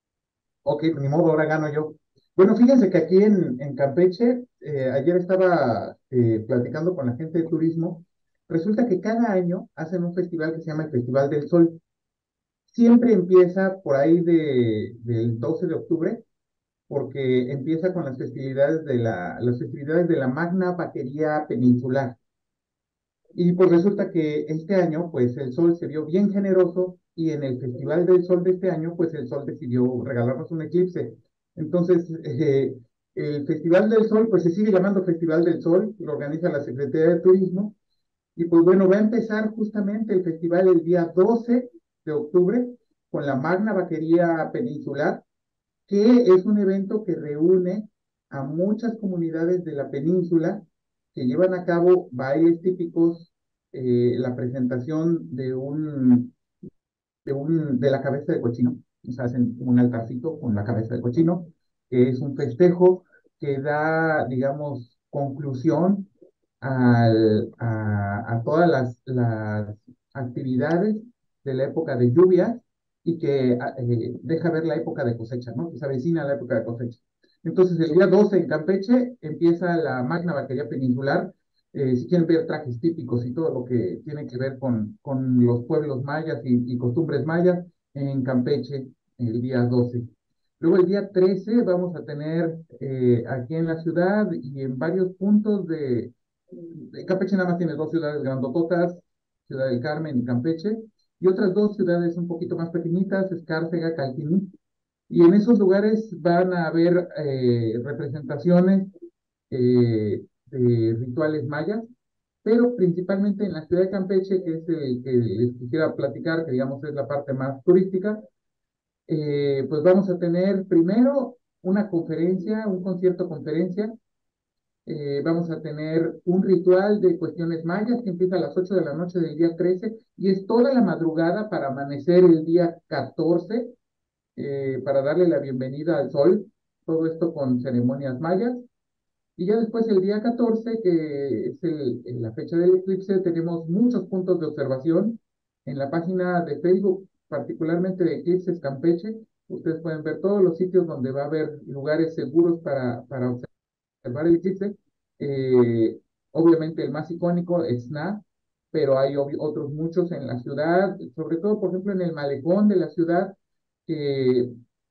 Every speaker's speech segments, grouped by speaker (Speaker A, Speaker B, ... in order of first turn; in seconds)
Speaker A: 0.6-11.8, 12.7-16.2, 16.9-22.1, 23.3-37.7, 38.4-45.2, 45.9-56.3, 57.2-66.1, 66.6-104.5, 105.1-108.9, 109.5-111.9, 112.4-118.2, 119.1-123.9, 124.8-133.7, 134.3-138.6, 139.4-153.5, 154.0-163.3, 163.9-164.5